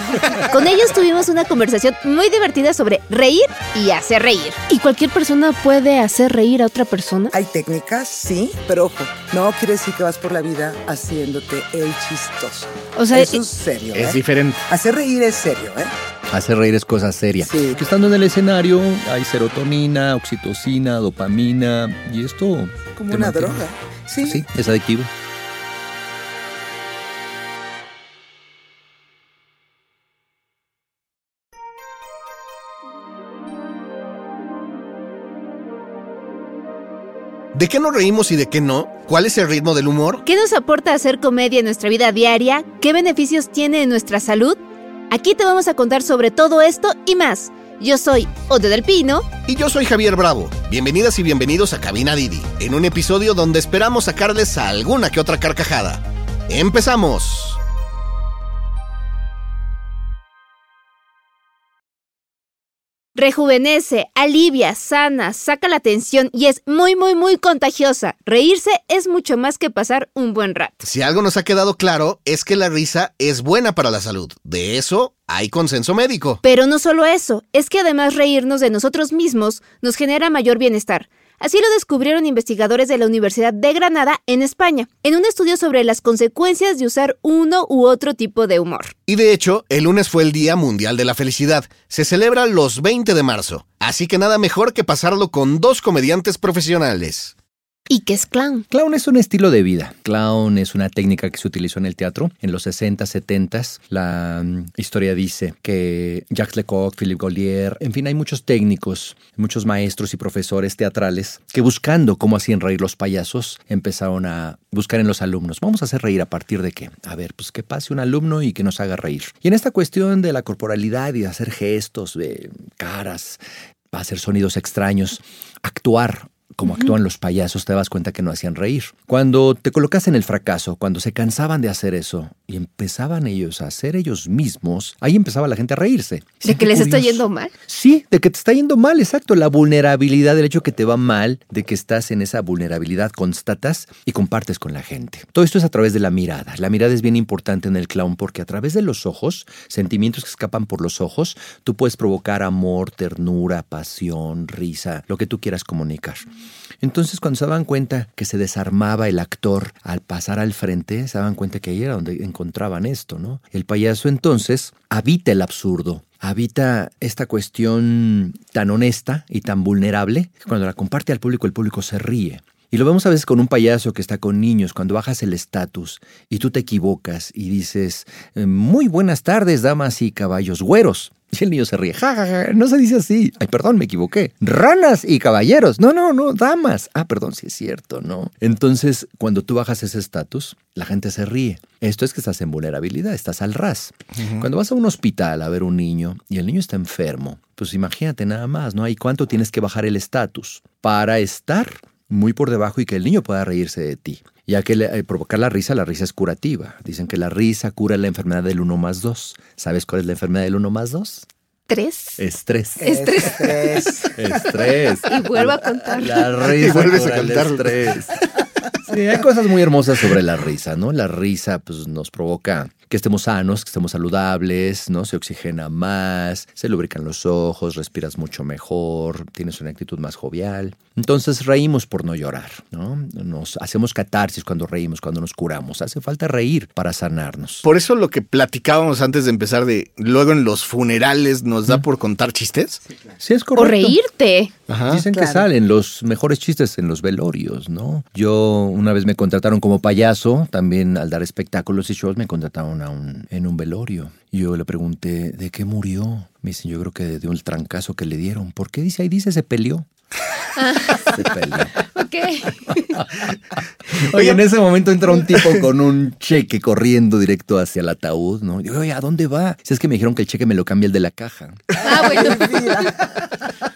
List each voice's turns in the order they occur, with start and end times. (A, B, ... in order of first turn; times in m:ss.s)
0:00.4-0:04.6 A
0:04.7-0:07.3 B
0:07.3-0:15.9 C
0:13.0-0:13.4 B
0:13.9-0:14.6 D
0:16.3-0:23.6 E
0:17.4-0:17.8 C
0:23.0-0:24.4 C
0:24.2-0:25.1 E
0:37.5-0:40.2 D
0:40.2-0:44.6 A
0:45.1-0:49.3 A
0:49.5-0:57.6 D
1:03.2-1:10.9 A
1:10.8-1:16.4 D
1:16.4-1:28.9 A
1:29.1-1:37.3 D
1:37.9-1:38.7 B
1:38.7-2:03.4 E
2:03.9-2:36.3 E
2:16.4-2:17.5 B
2:36.8-3:31.3 E
3:31.7-3:32.2 B
3:32.2-3:33.2 E
3:32.8-3:34.2 C
3:32.8-3:34.2 B
3:34.1-3:38.2 E
3:35.0-3:36.4 B
3:36.4-3:38.0 D
3:38.7-3:57.6 E
3:57.6-4:02.8 D
4:03.2-4:04.0 E
4:03.6-4:04.5 B
4:04.7-4:05.0 D
4:04.9-4:19.9 E
4:05.1-4:05.5 C
4:20.6-4:21.1 B
4:21.0-4:21.8 E
4:21.8-4:23.0 B
4:22.7-4:32.5 E
4:31.8-4:33.3 C
4:31.8-4:32.8 B